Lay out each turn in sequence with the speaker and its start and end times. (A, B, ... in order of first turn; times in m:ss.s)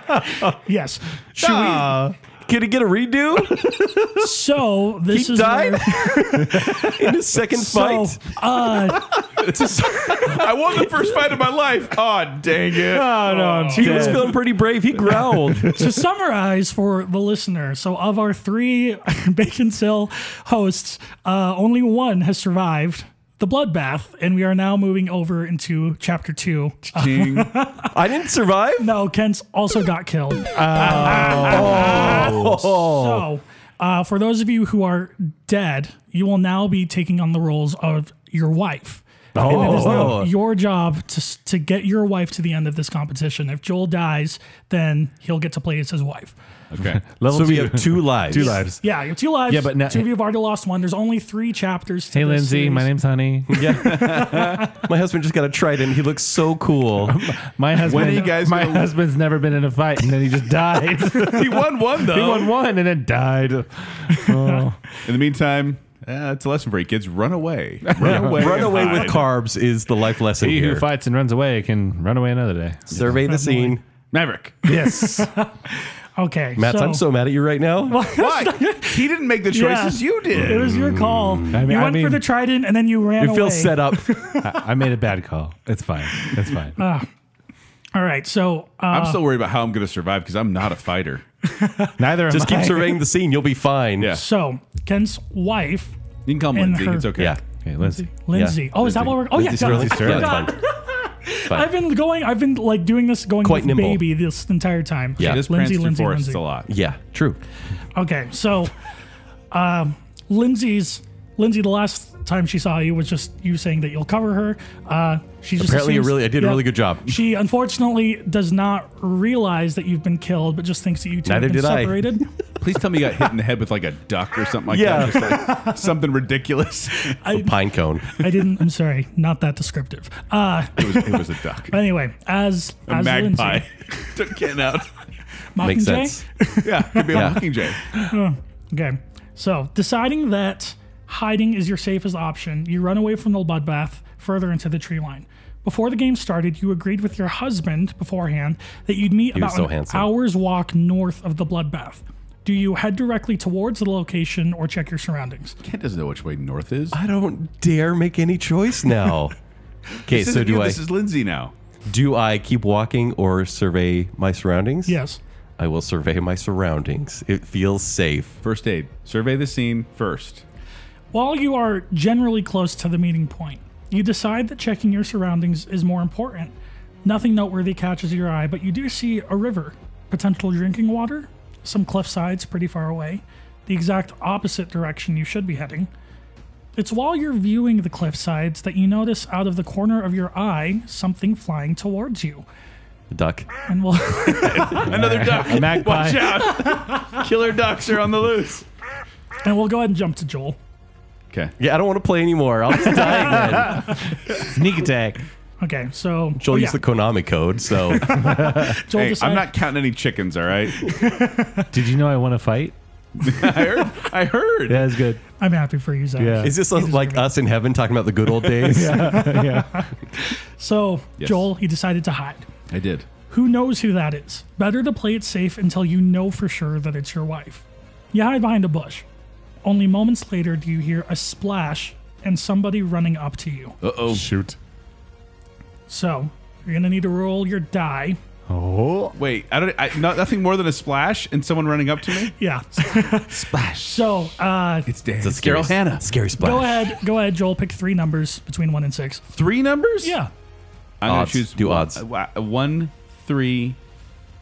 0:00.4-0:01.1 A
0:01.3-0:04.1 B
0:01.4-0:02.0 C
0:04.1-0:10.2 A
0:05.1-0:09.7 B
0:09.5-0:14.1 C
0:12.8-0:14.4 D
0:13.6-0:14.4 A
0:13.7-0:15.8 B
0:15.1-0:15.9 D
0:15.6-0:27.9 A
0:26.9-0:27.5 C
0:27.8-0:28.9 B
0:28.8-0:46.3 A
0:30.5-0:32.5 D
0:30.9-0:33.3 B
0:31.0-0:31.8 C
0:39.3-0:40.2 D
0:39.4-0:40.3 B
0:46.7-0:47.0 C
0:46.8-0:48.8 D
0:47.3-0:48.6 B
0:48.3-0:52.9 A
0:49.5-0:50.1 D
0:52.1-0:53.7 D
0:53.5-0:57.3 B
0:53.8-0:54.6 C
0:53.8-0:54.7 A
0:57.0-1:04.8 D
0:57.8-0:58.9 C
1:01.2-1:02.5 C
1:04.1-1:04.7 A
1:05.0-1:09.3 C
1:08.0-1:08.7 D
1:08.0-1:10.8 B
1:10.4-1:13.2 D
1:12.9-1:13.8 B
1:13.2-1:13.8 A
1:14.1-1:14.7 C
1:14.6-1:15.3 D
1:14.7-1:17.0 A
1:16.6-1:18.1 B
1:17.9-1:24.6 A
1:18.2-1:20.8 C
1:20.3-1:21.7 B
1:21.5-1:22.2 D
1:23.2-1:24.2 B
1:24.4-1:26.8 D
1:26.8-1:27.1 A
1:27.9-1:29.2 A
1:28.9-1:31.2 C
1:31.4-1:32.0 A
1:32.0-1:33.0 D
1:32.3-1:34.2 B
1:34.1-1:35.9 A
1:36.2-1:37.4 C
1:36.5-1:37.2 A
1:37.1-1:37.4 B
1:37.6-1:38.0 D
1:37.8-1:46.4 A
1:38.3-1:40.5 B
1:38.9-1:40.4 D
1:43.4-1:44.0 B
1:45.2-1:45.4 B
1:45.2-1:46.7 C
1:46.7-1:47.4 B
1:47.9-1:48.7 A
1:49.5-2:02.3 A
1:55.6-1:57.1 B
2:01.2-2:02.2 B
2:02.6-2:07.2 C
2:04.7-2:05.4 B
2:05.3-2:05.9 A
2:07.0-2:14.1 A
2:07.3-2:08.1 B
2:10.8-2:11.8 C
2:12.9-2:14.9 C
2:15.5-2:35.6 A
2:15.6-2:16.2 B
2:16.6-2:17.8 C
2:17.1-2:17.5 B
2:29.3-2:30.1 B
2:35.6-2:37.0 C
2:36.9-2:39.3 B
2:40.0-2:40.8 B
2:40.0-2:41.5 C
2:41.8-2:45.0 B
2:44.8-2:45.2 A
2:45.6-2:48.4 B
2:48.4-2:50.4 C
2:51.1-3:05.9 A
3:06.8-3:12.4 A
3:13.1-3:13.5 B
3:13.7-3:14.9 A
3:14.3-3:18.6 C
3:14.8-3:16.4 D
3:16.6-3:17.2 A
3:19.4-3:20.6 A
3:21.6-3:24.0 B
3:23.1-3:25.2 D
3:25.6-3:26.8 A
3:26.4-3:28.3 B
3:27.9-3:29.6 A
3:28.9-3:30.9 C
3:30.8-3:31.7 A
3:31.7-3:32.7 D
3:33.2-3:35.0 C
3:34.7-3:35.2 D
3:35.4-3:37.3 A
3:36.2-3:36.5 D
3:36.4-3:39.3 B
3:38.6-3:39.9 D
3:38.8-3:42.5 A
3:41.2-3:41.5 C
3:42.7-3:43.0 C
3:43.3-3:49.0 A
3:49.6-3:53.8 A
3:53.8-3:54.3 C
3:54.1-3:54.6 D
3:55.9-3:58.2 A
3:58.5-3:59.2 D
3:59.2-4:02.3 C
4:02.3-4:04.9 A
4:03.3-4:04.1 D
4:04.9-4:06.0 C
4:05.2-4:07.0 B
4:06.4-4:09.2 A
4:09.3-4:10.2 C
4:10.0-4:10.3 A
4:11.0-4:13.8 C
4:11.0-4:12.0 B